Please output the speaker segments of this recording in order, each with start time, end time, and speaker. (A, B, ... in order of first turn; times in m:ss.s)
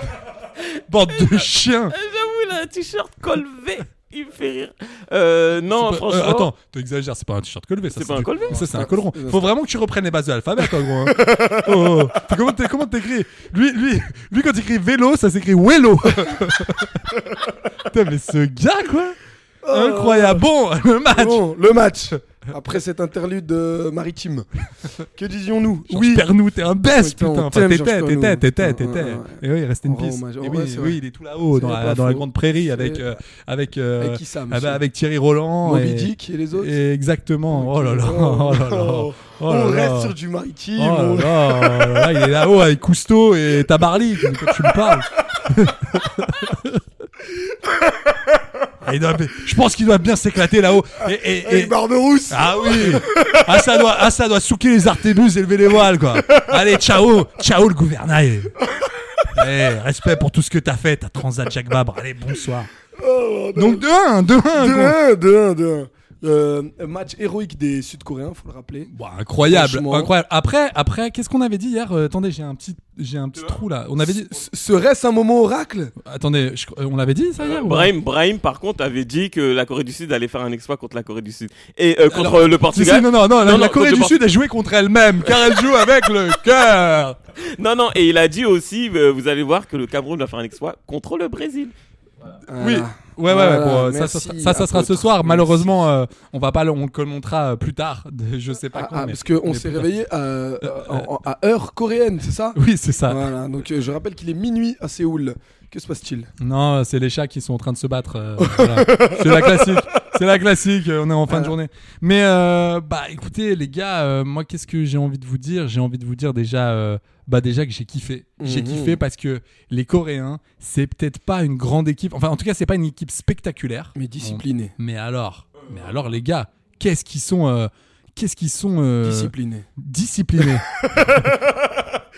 0:00.9-0:01.9 A
0:01.1-0:06.5 B
0:05.7-0:17.0 A
0:07.9-0:08.7 B
0:08.5-0:09.5 C
0:11.1-0:12.0 C
0:17.9-0:19.2 A
0:19.6-0:20.4 C
0:19.7-0:21.4 A
0:21.1-0:24.5 C
0:25.0-0:26.3 C
0:25.9-0:40.1 A
0:26.8-0:31.0 C
0:31.5-0:33.1 C
0:34.0-0:34.8 C
0:35.6-0:36.7 C
0:37.5-0:42.1 C
0:40.8-0:46.8 A
0:44.4-0:44.9 C
0:48.8-0:51.7 A
0:51.4-0:53.8 C
0:52.3-0:58.5 A
0:59.3-1:02.7 A
1:03.0-1:03.8 C
1:03.6-1:05.0 A
1:04.5-1:08.9 C
1:08.9-1:14.3 A
1:09.5-1:10.1 C
1:14.0-1:15.9 C
1:16.0-1:17.9 A
1:17.4-1:24.2 B
1:22.1-1:27.2 A
1:25.2-1:25.7 B
1:27.4-1:31.7 B
1:32.5-1:35.7 C
1:32.6-1:40.0 A
1:38.6-1:46.3 C
1:40.6-1:41.1 A
1:42.5-1:43.3 A
1:46.4-2:11.3 A
1:48.4-1:49.8 C
1:51.3-1:51.5 C
1:58.4-1:59.0 C
2:04.0-2:04.7 C
2:09.0-2:09.7 C
2:10.4-2:11.7 C